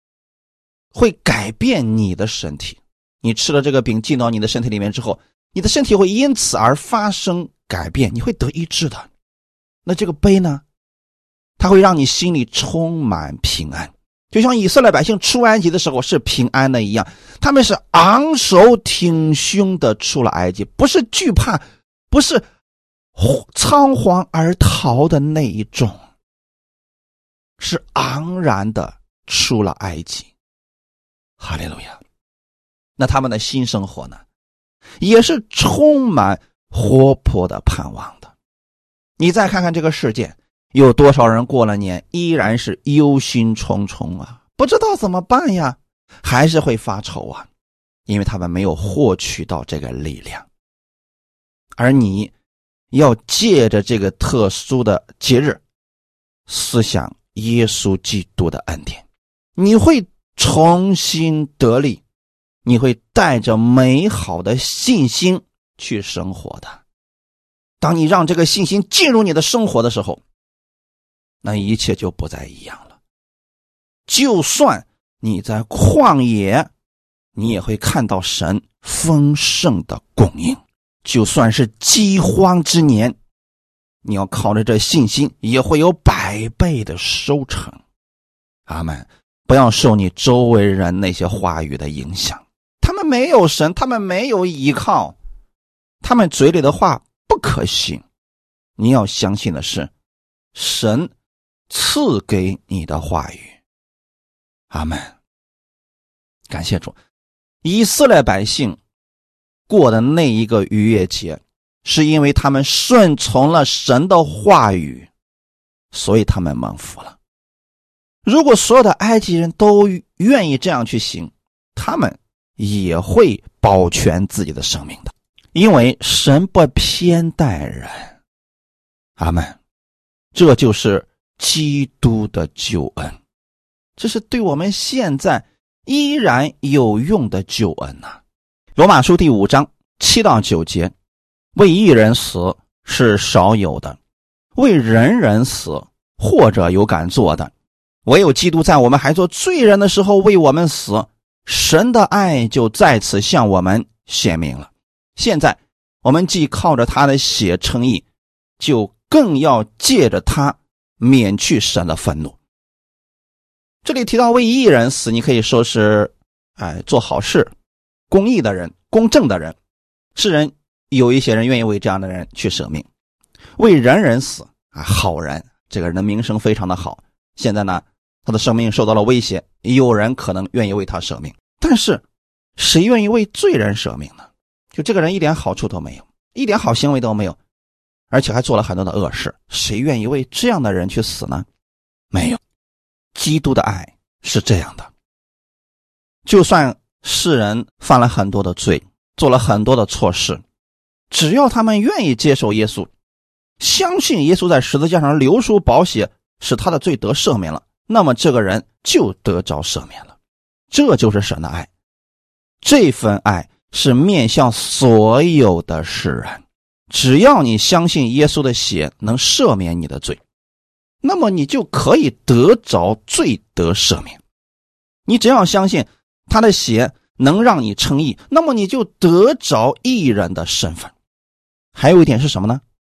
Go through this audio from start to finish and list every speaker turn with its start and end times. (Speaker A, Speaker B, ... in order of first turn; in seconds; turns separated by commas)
Speaker A: 0.9-9.1, Speaker A: 9.8-10.6, Speaker A: 11.6-22.4, Speaker A: 23.1-26.0, Speaker A: 27.6-30.3, Speaker A: 31.4-32.0, Speaker A: 33.0-34.2, Speaker A: 35.0-38.3, Speaker A: 39.2-47.5, Speaker A: 48.1-50.5, Speaker A: 51.8-52.3, Speaker A: 52.9-55.6, Speaker A: 56.5-59.0, Speaker A: 59.5-62.0, Speaker A: 62.6-66.8, Speaker A: 67.8-70.2, Speaker A: 71.4-73.0, Speaker A: 74.1-76.7, Speaker A: 77.3-83.1, Speaker A: 84.0-87.8, Speaker A: 88.7-95.2, Speaker A: 96.0-98.0, Speaker A: 98.8-99.9, Speaker A: 100.5-101.1, Speaker A: 101.7-103.6, Speaker A: 104.7-105.2, Speaker A: 106.5-107.0, Speaker A: 107.6-108.8, Speaker A: 109.7-115.1, Speaker A: 115.9-117.2, Speaker A: 118.2-128.2, Speaker A: 129.2-129.6, Speaker A: 130.3-133.2, Speaker A: 134.0-138.2, Speaker A: 138.8-140.9, Speaker A: 141.5-144.0, Speaker A: 144.5-147.5, Speaker A: 148.0-158.0, Speaker A: 158.6-162.4, Speaker A: 163.8-167.5, Speaker A: 168.1-169.6, Speaker A: 170.1-172.8, Speaker A: 173.6-182.0, Speaker A: 182.6-187.4, Speaker A: 188.1-191.4, Speaker A: 192.1-192.4, Speaker A: 193.1-194.9, Speaker A: 196.2-200.4, Speaker A: 201.1-202.9, Speaker A: 203.6-210.2, Speaker A: 210.7-211.7, Speaker A: 212.6-220.2, Speaker A: 221.0-224.2, Speaker A: 225.1-230.9, Speaker A: 231.7-232.6